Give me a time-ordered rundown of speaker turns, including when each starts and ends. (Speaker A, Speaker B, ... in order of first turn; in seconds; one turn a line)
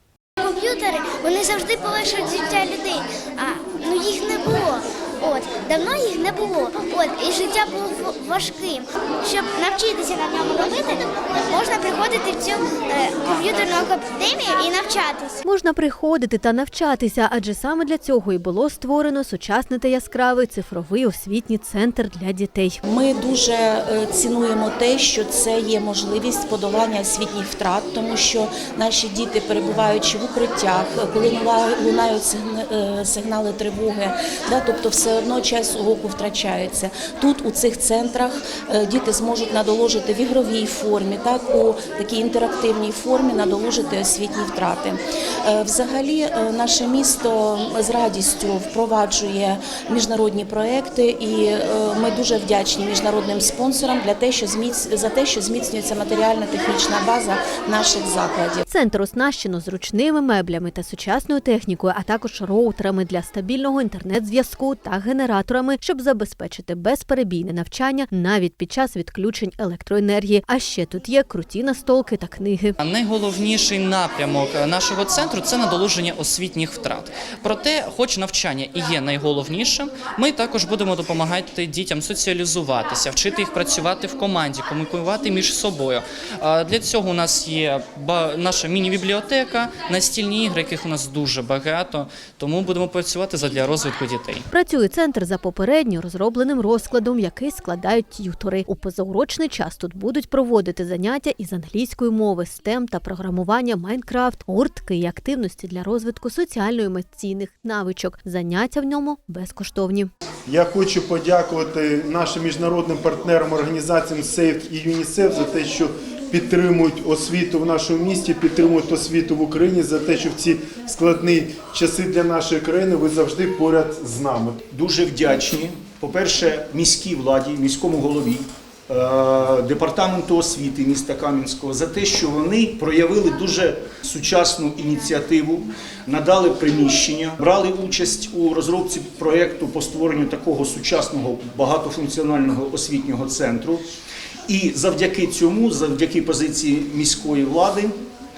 Speaker A: 0.4-15.4
Speaker B: 15.4-22.8
Speaker C: 22.9-23.3
Speaker D: 23.3-27.2
Speaker C: 24.2-45.0
Speaker D: 41.3-42.3
Speaker D: 43.0-43.4
Speaker D: 44.3-44.9
Speaker C: 45.5-48.3
Speaker D: 45.8-46.2
Speaker D: 46.7-49.5
Speaker C: 48.8-49.3
Speaker C: 49.8-50.2
Speaker D: 50.2-57.3
Speaker C: 50.8-51.1
Speaker C: 53.1-55.6
Speaker C: 56.7-58.6
Speaker B: 58.7-72.8
Speaker E: 72.8-94.5
Speaker B: 94.5-110.1
Speaker D: 110.5-124.6
Speaker F: 124.7-128.4
Speaker F: 128.9-143.8
Speaker F: 144.5-147.9